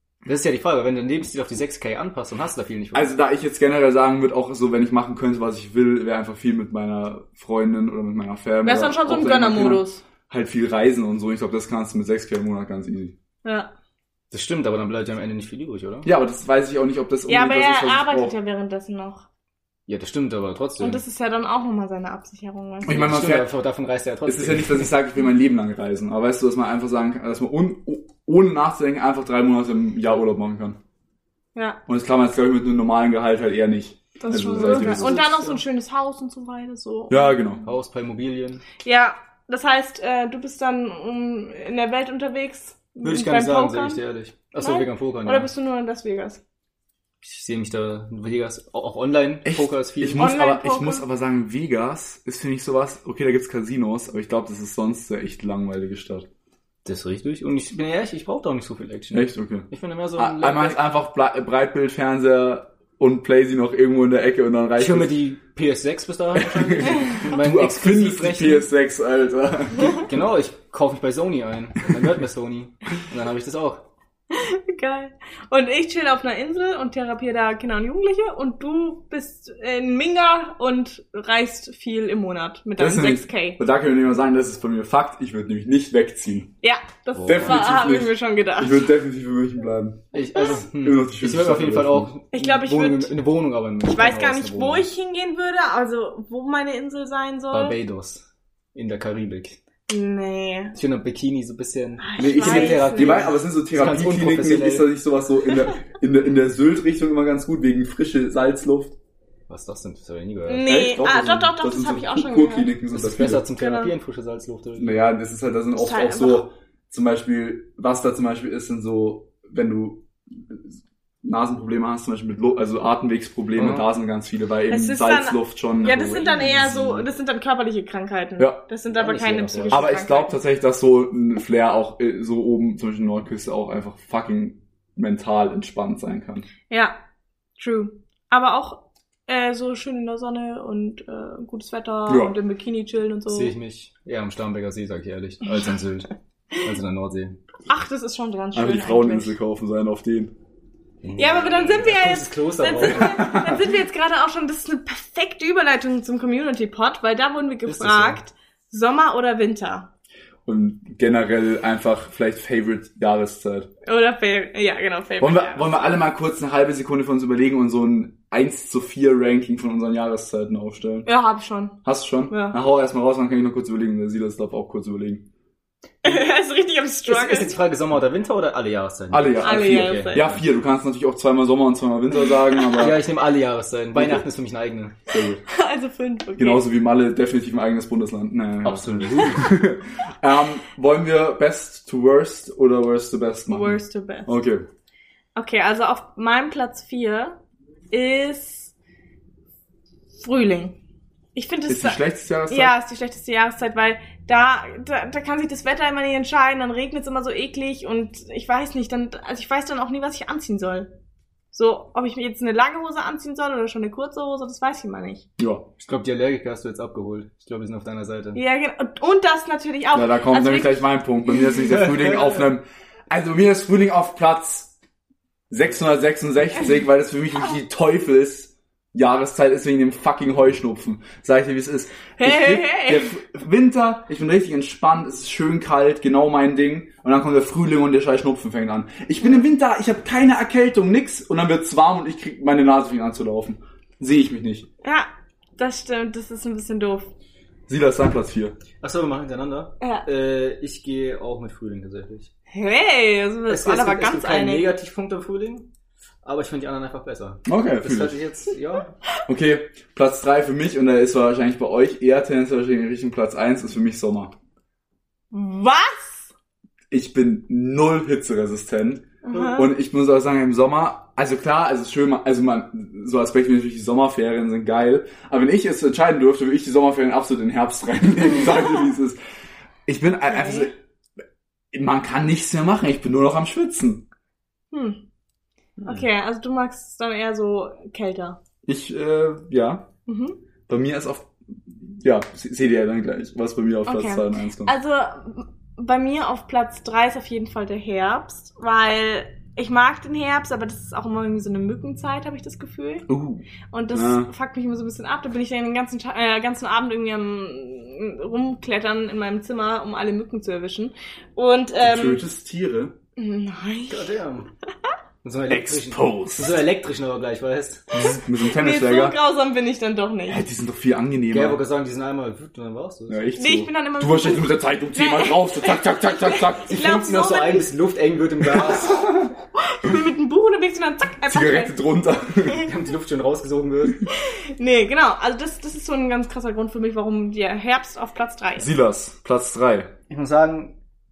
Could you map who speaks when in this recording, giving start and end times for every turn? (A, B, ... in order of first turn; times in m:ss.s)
0:00.2-0:03.1 A
0:02.9-0:13.2 B
0:08.6-0:10.0 C
0:13.4-0:13.7 C
0:14.3-0:16.1 A
0:16.0-0:18.3 B
0:17.3-0:19.3 C
0:19.9-0:21.0 A
0:20.8-0:23.0 C
0:22.8-0:23.5 B
0:22.9-0:24.9 A
0:24.3-0:30.8 B
0:31.6-0:31.8 C
0:31.9-0:35.2 B
0:34.2-0:37.4 C
0:34.6-0:35.6 A
0:37.1-0:37.6 B
0:37.6-0:38.6 A
0:38.8-0:44.0 C
0:43.0-0:45.5 A
0:44.6-0:46.4 C
0:47.2-0:50.3 A
0:49.4-0:56.3 B
0:50.2-0:51.0 C
0:56.8-1:00.8 A
0:59.1-1:05.2 B
1:04.8-1:08.7 A
1:06.4-1:10.1 B
1:10.0-1:13.9 A
1:14.3-1:23.6 C
1:22.8-1:26.5 B
1:26.6-1:28.8 C
1:27.2-1:27.7 A
1:27.2-1:32.1 B
1:30.1-1:34.9 A
1:32.3-1:33.1 C
1:33.8-1:37.8 C
1:37.5-1:39.6 A
1:39.9-1:40.8 C
1:40.8-1:44.9 A
1:42.0-1:43.2 C
1:42.2-1:49.0 B
1:49.5-1:50.7 A
1:50.5-1:52.7 C
1:50.6-1:53.5 B
1:52.9-1:55.0 A
1:53.5-1:53.9 C
1:54.8-2:00.7 B
1:55.8-1:56.4 C
2:01.2-2:07.0 B
2:03.6-2:03.9 A
2:04.7-2:10.4 C
2:06.2-2:06.7 A
2:08.9-2:09.9 A
2:09.7-2:16.5 B
2:16.7-2:17.0 C
2:17.6-2:23.5 C
2:22.1-2:22.4 B
2:23.3-2:27.4 A
2:27.7-2:29.4 C
2:28.5-2:30.3 B
2:31.0-2:33.4 A
2:31.2-2:39.9 C
2:33.1-2:33.6 B
2:37.7-2:38.2 A
2:40.5-2:43.7 B
2:43.9-2:45.8 C
2:45.2-2:51.1 B
2:51.1-2:52.6 C
2:51.8-2:55.3 B
2:56.0-2:57.5 C
2:57.1-3:00.4 A
2:59.1-3:03.0 B
2:59.4-3:00.3 C
3:02.7-3:05.0 A
3:03.9-3:04.2 B
3:05.1-3:05.4 B
3:05.5-3:06.6 C
3:06.4-3:14.7 B
3:08.6-3:09.6 A
3:13.5-3:14.3 C
3:15.4-3:17.4 C
3:17.9-3:18.7 C
3:20.2-3:20.8 C
3:21.4-3:30.9 C
3:21.7-3:22.8 B
3:31.5-3:35.2 C
3:35.4-3:35.7 B
3:35.8-3:38.4 A
3:38.4-3:40.9 C
3:39.9-3:44.7 B
3:41.6-3:42.5 A
3:45.5-4:04.7 B
3:52.2-3:53.2 C
4:04.8-4:07.1 C
4:07.7-4:08.6 B
4:08.8-4:12.3 A
4:09.8-4:10.1 C
4:12.5-4:14.6 C
4:13.5-4:15.7 A
4:16.2-4:19.0 A
4:17.5-4:18.3 B
4:19.3-4:24.3 B
4:25.3-4:26.3 C
4:26.9-4:39.2 B
4:29.2-4:29.7 C
4:39.9-4:40.7 B
4:40.2-4:40.7 C
4:41.7-4:44.1 B
4:44.7-4:45.0 C
4:45.8-4:48.4 C
4:48.7-4:49.9 B
4:50.1-4:50.4 C
4:50.7-4:54.8 B
4:53.9-5:03.1 C
5:03.1-5:04.3 B
5:03.7-5:12.2 C
5:11.8-5:13.0 B
5:13.2-5:14.1 C
5:13.9-5:14.5 A
5:15.2-5:17.9 A
5:15.5-5:16.6 B
5:17.9-5:19.2 B
5:18.5-5:20.4 C
5:20.3-5:21.6 B
5:21.3-5:23.2 A
5:23.1-5:26.8 B
5:23.4-5:27.7 C
5:26.7-5:29.2 A
5:28.5-5:29.2 B
5:29.6-5:31.8 C
5:31.3-5:32.7 B
5:32.5-5:34.0 A
5:34.2-5:38.7 C
5:38.6-5:39.9 B
5:40.1-5:40.8 A